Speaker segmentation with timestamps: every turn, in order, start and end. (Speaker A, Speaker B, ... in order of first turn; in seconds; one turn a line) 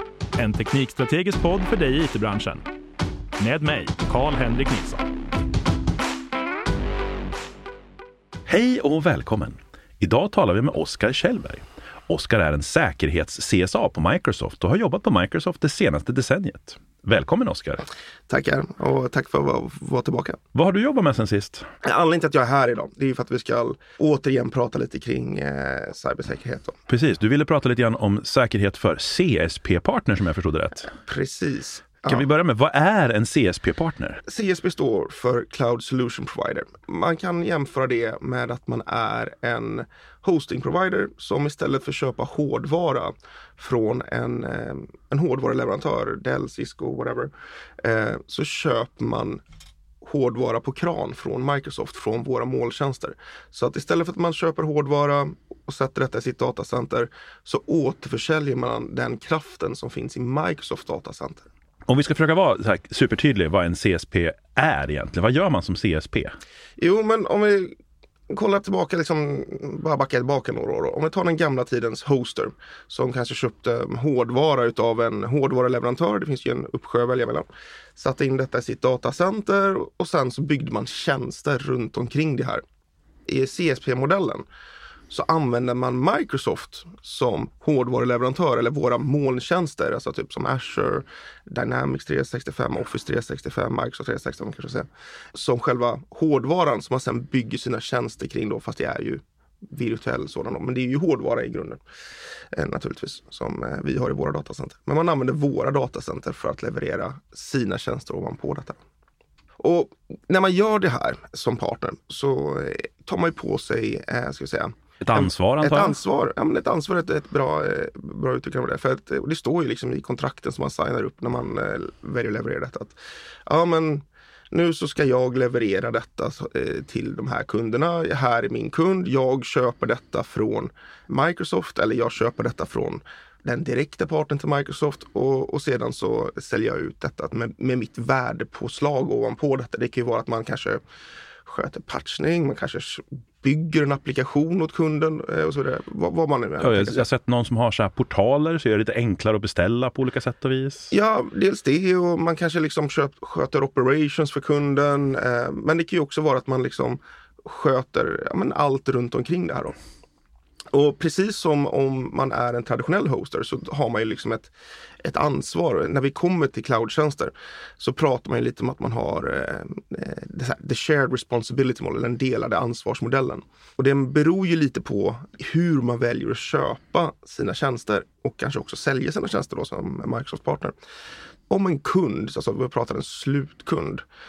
Speaker A: 0.4-2.6
Speaker A: 3.4-5.1
Speaker B: 8.5-17.9
Speaker C: 18.3-20.4
Speaker B: 20.6-21.7
Speaker C: 21.8-26.8
Speaker B: 26.9-30.9
Speaker C: 31.0-32.2
Speaker B: 32.1-34.2
Speaker C: 34.3-47.3
Speaker C: 47.8-49.4
Speaker C: 50.0-61.5
Speaker B: 61.9-66.3
Speaker C: 66.8-67.8
Speaker C: 68.3-82.6
Speaker C: 83.3-84.5
Speaker C: 85.1-101.8
Speaker C: 102.5-108.8
Speaker C: 109.6-123.0
Speaker B: 115.0-116.0
Speaker C: 123.5-140.8
Speaker C: 141.4-147.1
Speaker B: 146.6-150.9
Speaker C: 150.9-159.8
Speaker C: 160.7-164.5
Speaker C: 165.0-180.7
Speaker C: 181.5-184.0